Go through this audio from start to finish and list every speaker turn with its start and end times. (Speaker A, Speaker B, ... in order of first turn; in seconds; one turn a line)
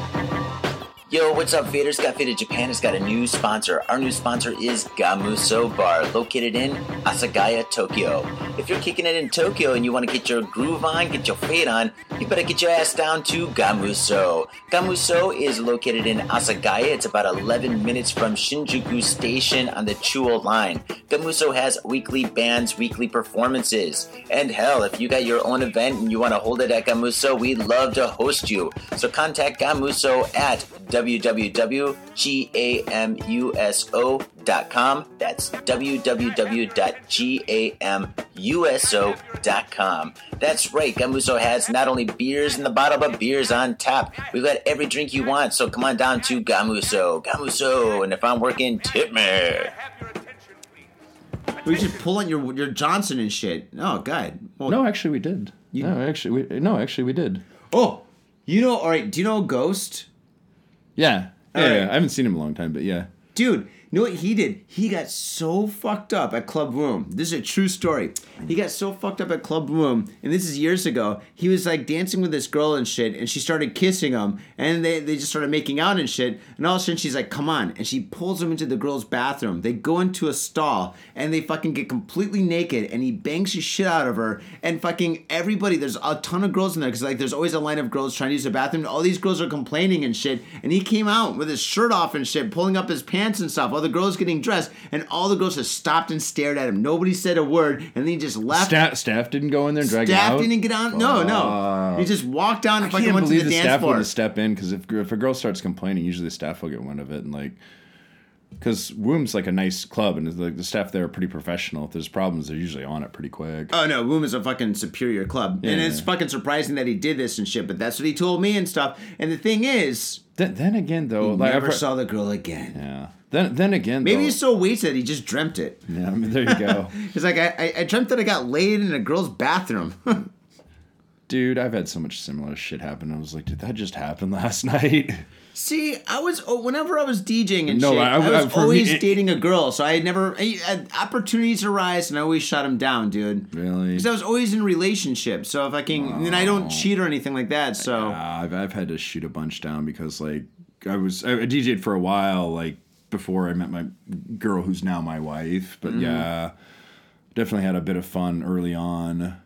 Speaker A: 1.1-49.7
Speaker B: 51.6-54.8
Speaker C: 54.6-57.4
Speaker B: 57.7-60.1
Speaker C: 61.0-63.1
Speaker B: 61.5-61.9
Speaker B: 63.3-98.8
Speaker C: 98.5-102.1
Speaker B: 99.8-104.1
Speaker C: 102.8-107.6
Speaker C: 108.6-113.7
Speaker B: 113.7-120.2
Speaker C: 115.6-116.1
Speaker C: 120.4-121.8
Speaker B: 121.2-122.8
Speaker C: 122.7-124.4
Speaker B: 124.0-125.9
Speaker C: 125.9-126.9
Speaker B: 126.4-130.3
Speaker C: 131.3-135.2
Speaker B: 135.5-148.2
Speaker C: 137.7-139.2
Speaker C: 143.5-144.1
Speaker C: 145.9-146.9
Speaker C: 147.8-156.5
Speaker B: 155.8-156.3
Speaker C: 157.3-159.4